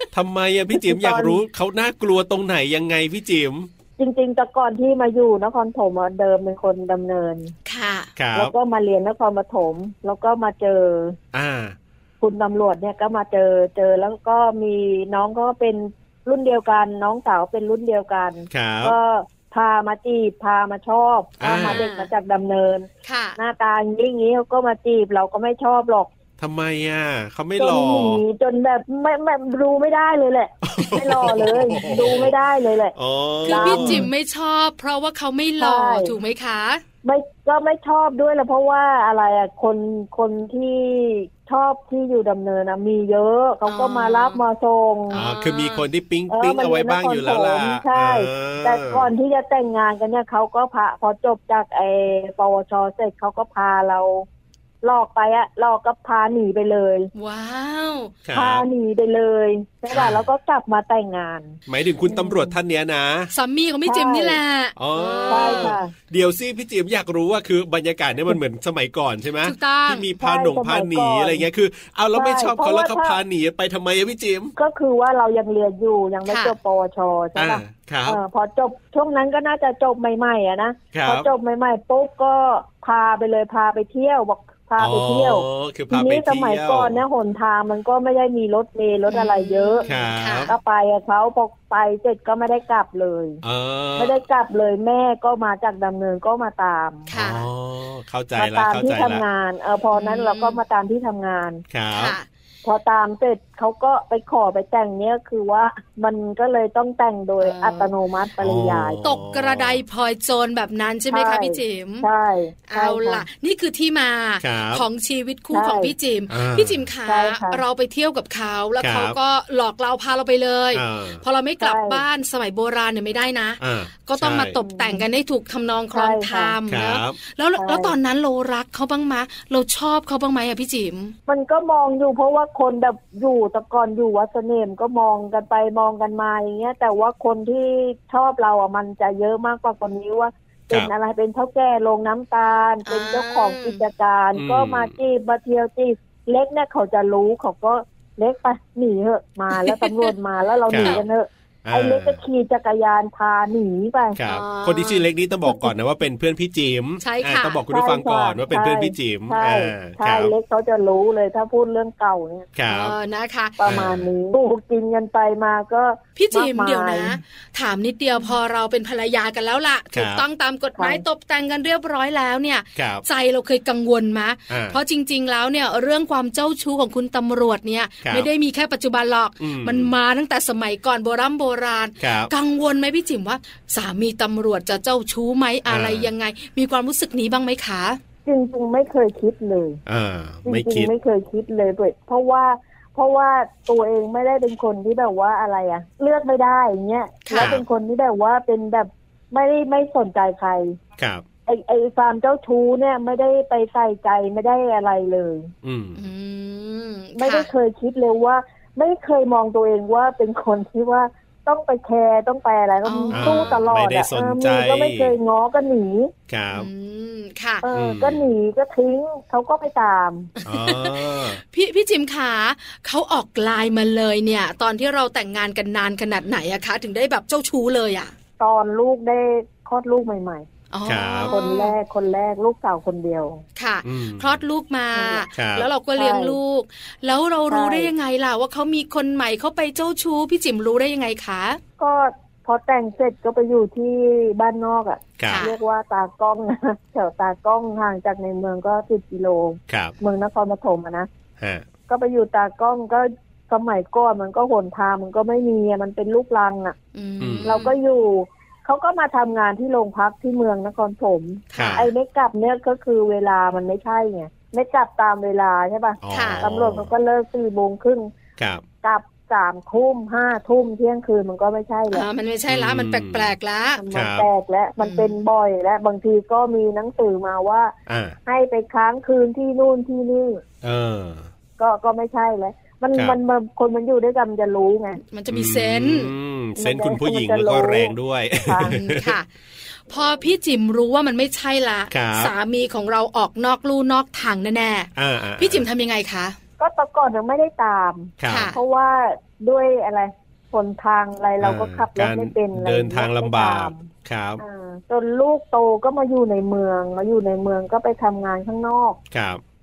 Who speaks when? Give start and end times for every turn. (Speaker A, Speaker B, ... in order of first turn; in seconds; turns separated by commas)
Speaker A: 0.1-3.7, Speaker B: 0.7-1.4, Speaker B: 4.0-7.5, Speaker C: 7.7-8.1, Speaker A: 8.2-8.5, Speaker B: 8.3-11.2, Speaker A: 11.3-11.8, Speaker B: 12.2-26.1, Speaker A: 18.5-18.9, Speaker A: 21.4-21.8, Speaker C: 21.7-22.1, Speaker C: 23.0-23.4, Speaker A: 26.4-28.2, Speaker B: 27.6-32.9, Speaker A: 30.6-32.3, Speaker A: 32.9-34.1, Speaker C: 33.4-36.8, Speaker B: 33.5-34.1, Speaker B: 35.6-36.1, Speaker B: 37.0-45.2, Speaker C: 43.6-44.4, Speaker C: 45.1-45.8, Speaker A: 45.1-49.1, Speaker B: 46.3-54.2, Speaker B: 54.8-57.1, Speaker C: 57.1-58.1, Speaker A: 58.2-58.6, Speaker B: 58.3-62.6, Speaker A: 59.9-60.2, Speaker A: 61.7-63.3, Speaker C: 63.3-65.8, Speaker B: 63.8-64.4, Speaker A: 64.8-74.5, Speaker B: 65.3-65.9, Speaker C: 69.4-70.1, Speaker B: 70.2-71.4, Speaker B: 72.1-73.2, Speaker B: 74.6-89.9, Speaker C: 76.3-76.5, Speaker A: 77.3-78.2, Speaker A: 80.9-81.3, Speaker A: 84.8-87.0, Speaker C: 89.1-90.5, Speaker A: 89.8-90.5, Speaker B: 90.4-93.4, Speaker A: 93.4-94.2, Speaker B: 94.0-97.1, Speaker C: 97.1-97.5, Speaker A: 97.1-99.2, Speaker B: 98.3-101.6, Speaker C: 99.9-100.6, Speaker A: 101.7-102.2, Speaker C: 101.9-102.2, Speaker B: 102.6-109.0, Speaker C: 107.4-107.9, Speaker A: 108.4-109.8, Speaker C: 109.0-112.1, Speaker B: 111.1-113.2, Speaker C: 112.7-131.1, Speaker A: 114.4-114.8, Speaker B: 115.5-115.9, Speaker A: 116.3-116.8, Speaker B: 117.0-117.6, Speaker A: 118.8-119.2, Speaker A: 120.7-121.2, Speaker B: 121.6-122.0, Speaker A: 123.6-124.5, Speaker B: 124.6-125.0, Speaker B: 125.9-126.5, Speaker A: 126.7-127.2, Speaker B: 127.5-127.9, Speaker B: 131.3-154.2, Speaker C: 142.8-143.8, Speaker A: 144.3-144.9, Speaker C: 149.5-150.1, Speaker A: 150.7-151.0, Speaker A: 151.6-152.2, Speaker A: 154.2-160.3, Speaker C: 154.2-155.1, Speaker C: 157.0-157.6, Speaker B: 157.7-162.5, Speaker A: 162.5-162.9, Speaker C: 162.7-163.6, Speaker B: 163.6-167.2, Speaker A: 163.6-164.1, Speaker C: 166.2-188.0, Speaker B: 168.1-168.4, Speaker A: 169.9-170.2, Speaker B: 170.8-171.0, Speaker A: 172.8-173.0, Speaker A: 174.5-174.8, Speaker A: 178.0-178.3, Speaker A: 179.4-179.9, Speaker A: 182.0-182.3, Speaker A: 185.7-186.1, Speaker B: 188.2-189.8, Speaker A: 189.8-190.9, Speaker B: 190.4-200.8, Speaker C: 197.2-197.6, Speaker A: 197.4-197.6, Speaker A: 201.0-201.2, Speaker B: 201.4-205.5, Speaker A: 205.6-206.0, Speaker C: 205.9-207.5, Speaker B: 207.2-216.1, Speaker C: 212.8-213.6, Speaker A: 213.1-215.2, Speaker A: 216.3-216.7, Speaker C: 216.5-217.6, Speaker B: 217.6-220.3, Speaker A: 217.7-218.3, Speaker C: 220.4-228.1, Speaker A: 220.4-221.4, Speaker B: 228.4-230.5, Speaker C: 230.7-231.8, Speaker A: 230.8-231.3, Speaker B: 231.3-233.4, Speaker C: 233.6-241.6, Speaker A: 233.8-234.4, Speaker B: 234.9-235.2, Speaker A: 235.3-235.7, Speaker B: 235.9-236.4, Speaker B: 237.5-237.9, Speaker B: 241.8-251.1, Speaker A: 245.2-245.5, Speaker C: 245.3-245.6, Speaker A: 249.7-249.9, Speaker A: 251.4-251.7, Speaker B: 251.9-256.8, Speaker C: 256.9-257.7, Speaker A: 257.2-257.6, Speaker B: 257.4-268.1, Speaker C: 261.5-261.9, Speaker A: 261.5-261.9, Speaker A: 266.0-266.9, Speaker C: 266.1-266.4, Speaker A: 268.4-268.6, Speaker B: 268.8-272.1, Speaker C: 271.9-273.8, Speaker A: 272.5-273.3, Speaker B: 273.8-277.7, Speaker A: 273.9-274.3, Speaker C: 274.8-275.2, Speaker A: 277.9-278.2, Speaker B: 278.2-280.4, Speaker A: 280.6-281.3, Speaker B: 281.6-285.0, Speaker C: 285.1-286.1, Speaker A: 285.3-289.2, Speaker B: 286.6-288.7, Speaker C: 288.6-289.3, Speaker C: 289.9-296.4, Speaker A: 291.9-292.3, Speaker A: 294.9-295.6, Speaker B: 296.6-303.9, Speaker A: 298.2-298.5, Speaker C: 298.3-298.6, Speaker A: 301.4-304.4, Speaker B: 304.4-309.0, Speaker A: 309.1-309.4